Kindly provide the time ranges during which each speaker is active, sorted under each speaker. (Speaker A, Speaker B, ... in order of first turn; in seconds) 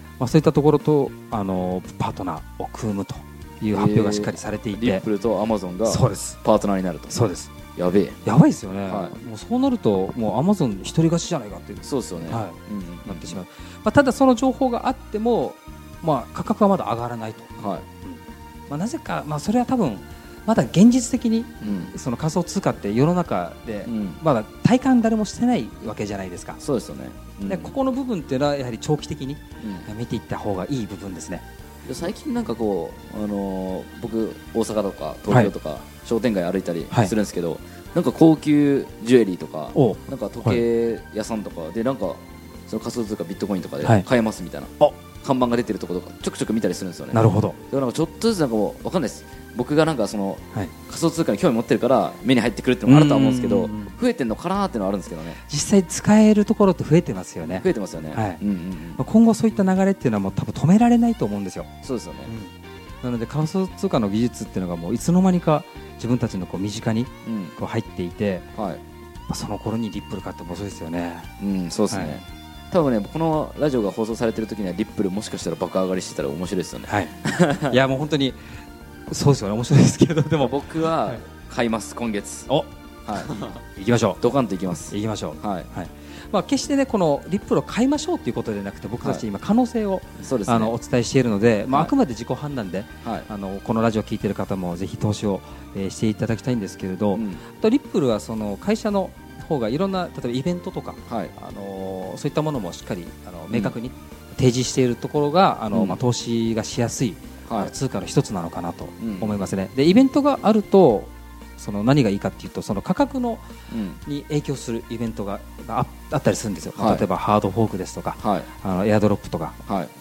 Speaker A: 0.2-5.0, 5.9-6.4, 7.1-7.5, 8.2-17.5, 18.1-26.6, 27.5-31.4, 39.8-40.6, 47.1-47.6, 52.9-54.0, 55.5-58.4, 59.0-61.7, 62.3-68.5, 69.3-71.3, 71.9-72.2, 76.9-77.1, 77.7-78.4, 79.1-81.2, 83.5-84.2, 84.9-113.5, 114.1-119.6
Speaker B: 3.7-7.2, 7.8-8.2, 8.9-9.2, 11.8-13.4, 17.6-17.9, 21.6-21.9, 23.9-24.2, 26.6-27.8, 29.6-29.9, 31.8-55.4, 57.6-59.0, 61.8-62.3, 67.2-67.6, 68.6-68.8, 71.4-77.8, 80.4-82.5, 83.0-83.5, 84.2-85.7, 90.2-90.8, 93.0-93.3, 97.1-97.4, 101.1-101.3, 105.7-106.0, 107.5-107.7, 109.0-109.5, 113.7-114.0, 116.8-117.1, 118.2-118.5, 119.7-119.9